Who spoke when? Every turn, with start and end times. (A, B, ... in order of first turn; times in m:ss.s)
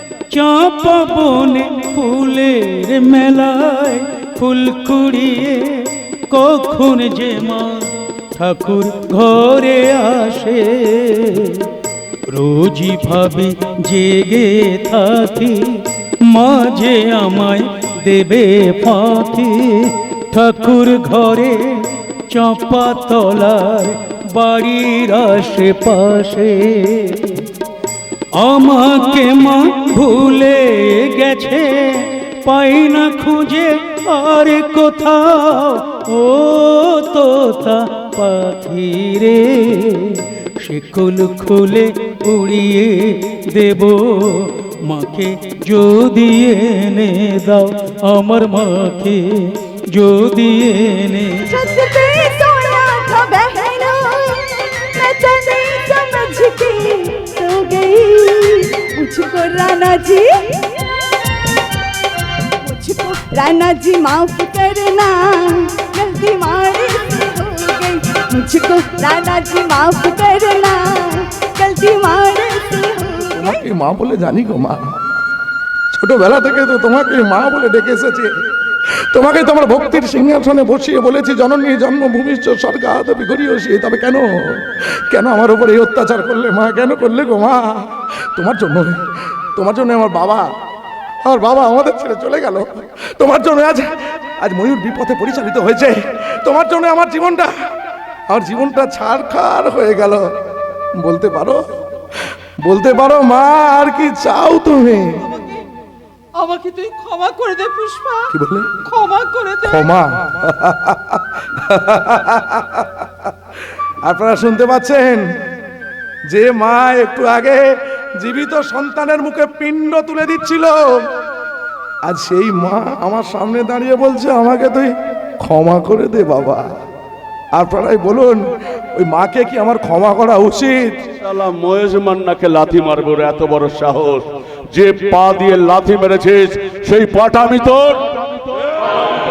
0:00.3-0:11.7 A
0:12.3-0:27.5 A
0:28.4-0:51.5 A
0:51.5-0:54.4 B
0:55.0-1:00.3 B
1:02.7-1:13.6 B
1:13.3-1:15.0 C
1:15.9-1:29.0 C
1:29.6-1:30.4 C
1:31.3-1:37.5 C
1:38.3-1:40.2 C
1:41.0-1:41.6 C
1:42.2-1:45.2 C
1:46.4-1:48.0 D
1:48.3-1:48.7 C
1:48.9-1:49.6 D
1:49.6-1:53.3 C
1:54.1-1:55.2 C
1:56.3-1:57.6 C
1:58.2-2:01.0 C
2:02.1-2:06.7 C
2:07.6-2:08.4 C
2:09.0-2:10.9 C
2:11.2-2:18.0 E